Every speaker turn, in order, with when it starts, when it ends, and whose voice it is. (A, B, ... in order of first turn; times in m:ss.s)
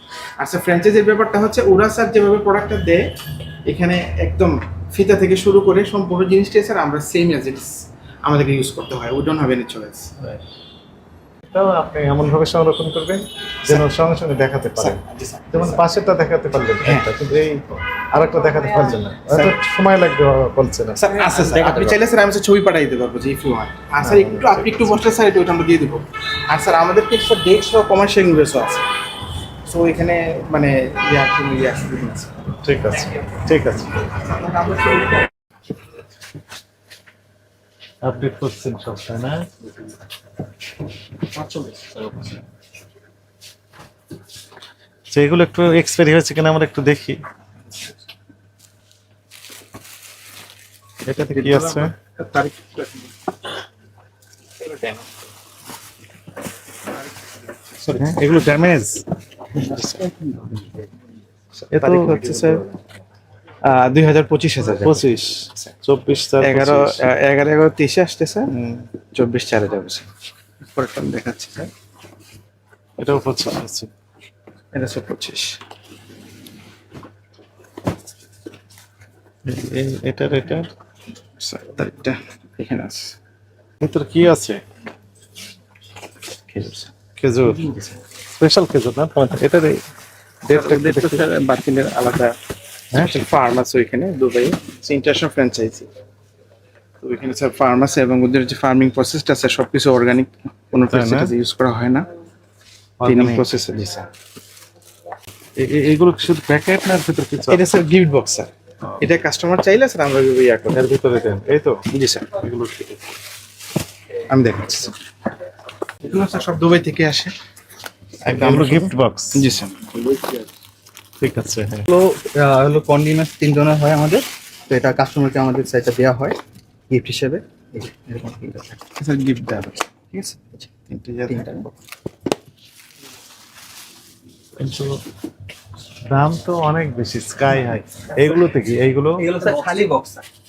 0:00.4-0:03.0 A
0:03.7-0:10.1 A
0:11.5-0:15.0 B
0:14.8-0:15.8 A
0:15.5-0:22.0 B
0:16.8-0:17.1 A
0:19.3-0:19.6 A
0:21.0-0:28.9 A
0:24.0-0:25.0 B
0:29.7-0:32.3 A
0:32.6-0:34.0 B
0:34.5-0:34.8 A
0:38.0-0:39.4 B
0:41.4-0:42.1 A
0:45.1-0:47.2 B
0:51.1-0:51.9 B
0:51.3-0:53.1 A
0:54.6-0:55.1 A
0:57.8-0:58.3 A
0:58.0-0:59.0 B
1:01.6-1:02.6 A
1:01.7-1:02.6 B
1:03.6-1:05.0 A
1:04.8-1:07.0 B
1:06.4-1:08.5 A
1:08.5-1:08.9 B
1:09.1-1:10.1 A
1:10.6-1:11.7 A
1:13.0-1:13.9 B
1:14.7-1:15.6 A
1:19.5-1:20.7 B
1:21.4-1:23.2 A
1:23.8-1:24.6 B
1:26.5-1:26.9 A
1:27.2-1:27.7 B
1:27.6-1:27.9 A
1:28.3-1:29.8 B
1:30.4-1:31.2 B
1:30.5-1:32.4 A
1:32.9-1:33.2 B
1:33.0-1:35.9 A
1:37.0-1:42.1 A
1:40.9-1:41.3 B
1:43.0-1:43.4 B
1:43.1-1:44.1 A
1:45.6-1:47.6 B
1:47.4-1:50.9 A
1:50.7-1:51.8 B
1:51.9-1:52.3 A
1:52.4-1:53.0 B
1:54.3-1:55.0 A
1:56.0-1:57.3 A
1:58.2-2:00.0 A
1:58.3-1:59.5 B
2:01.2-2:01.9 B
2:01.9-2:06.4 C
2:06.9-2:08.8 C
2:09.0-2:09.8 A
2:10.1-2:10.7 C
2:10.9-2:11.7 A
2:11.3-2:11.7 C
2:14.6-2:14.9 B
2:16.1-2:19.3 B
2:19.2-2:20.3 C